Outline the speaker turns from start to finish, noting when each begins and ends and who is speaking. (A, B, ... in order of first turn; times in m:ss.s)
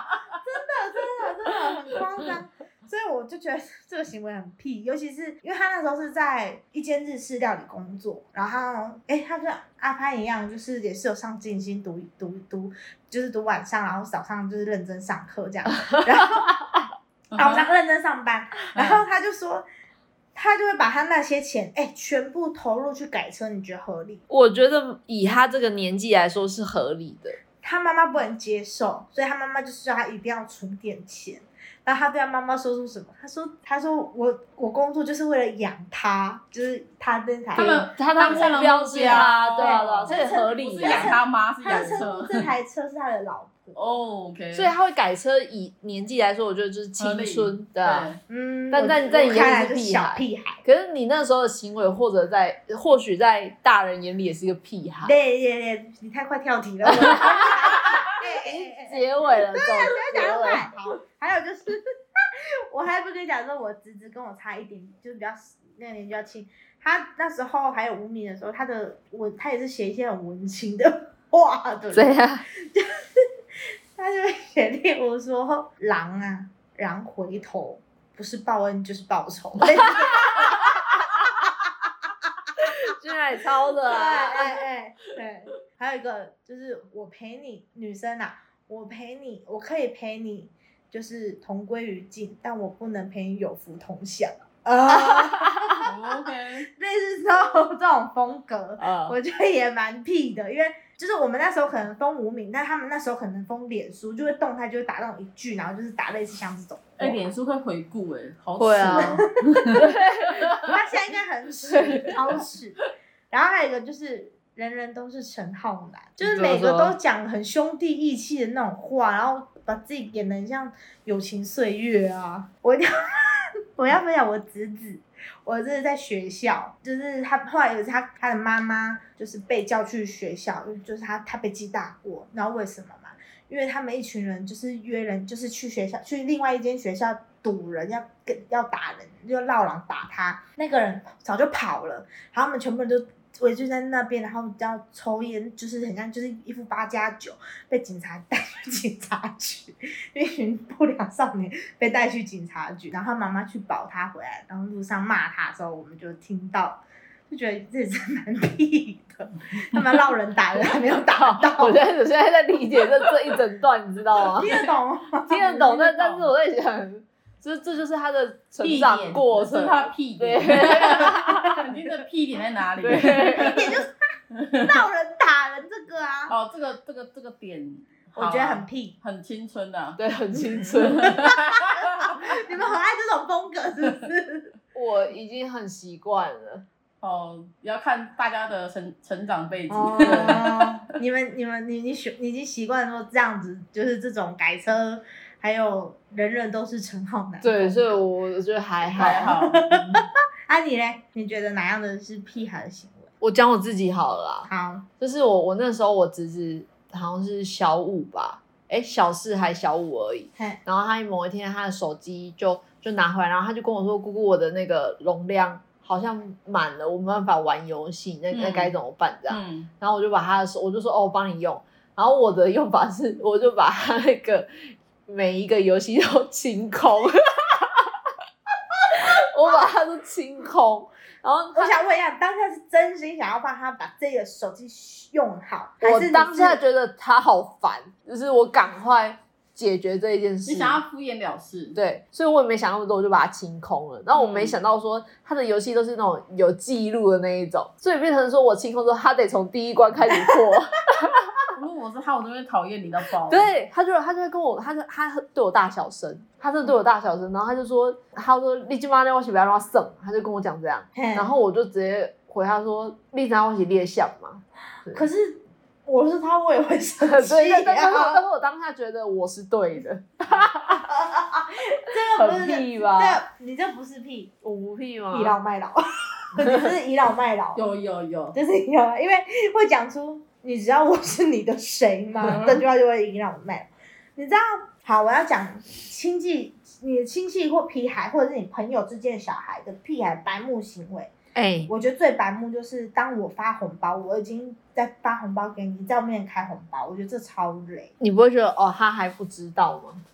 0:00.4-0:16.6 A
0:17.3-0:17.7 B
0:17.4-0:19.6 A
0:20.4-0:24.2 A
0:24.3-0:27.4 C
0:27.6-0:43.8 A
0:37.5-0:42.1 C
0:37.6-0:42.5 B
0:43.8-0:44.7 B
0:44.5-0:48.2 C
0:47.0-0:48.2 B
0:48.3-0:50.6 A
0:48.7-0:55.1 C
0:55.0-1:13.2 A
0:56.8-1:00.7 C
1:11.9-1:12.4 C
1:14.0-1:21.5 A
1:22.7-1:24.6 C
1:23.8-1:35.9 A
1:34.9-1:35.8 C
1:35.8-1:36.7 B
1:36.7-1:47.2 A
1:38.8-1:39.2 C
1:47.0-1:50.6 B
1:48.6-1:50.7 C
1:48.9-1:49.8 A
1:50.6-1:52.8 A
1:51.7-1:52.4 C
1:53.3-2:41.8 A
1:56.2-1:57.0 C
2:41.2-2:44.6 C
2:44.4-2:45.7 A
2:45.3-2:51.8 C
2:45.4-2:46.3 B
2:48.6-2:53.7 B
2:52.8-2:53.7 C
2:53.3-2:53.9 A
2:54.3-2:54.7 B
2:54.6-2:56.3 A
2:56.3-3:00.0 B
2:58.2-2:59.0 A
3:00.0-3:01.2 C
3:00.8-3:02.1 B
3:01.2-3:04.5 A
3:04.7-3:06.6 C
3:07.0-3:10.8 B
3:09.7-3:18.0 A
3:10.0-3:10.4 C
3:17.4-3:20.0 C
3:18.9-3:23.1 A
3:19.0-3:19.6 B
3:23.2-3:48.1 C
3:24.5-3:24.9 A
3:38.3-3:38.7 B
3:39.3-3:39.7 B
3:48.9-3:51.8 C
3:51.5-3:56.6 A
3:55.8-4:00.8 C
4:00.5-4:01.8 B
4:01.8-4:11.1 C
4:04.1-4:04.6 B
4:11.5-4:13.5 B
4:13.3-4:25.0 C
4:21.0-4:21.3 A
4:24.9-4:28.2 A
4:27.0-4:30.9 C
4:30.9-4:34.3 A
4:32.1-4:33.2 C
4:34.4-4:35.4 C
4:35.1-4:37.6 A
4:36.4-4:36.7 C
4:37.6-4:38.4 B
4:38.3-4:51.1 A
4:42.3-4:42.6 B
4:51.4-4:51.7 C
4:51.7-4:57.9 A
4:58.0-5:00.0 C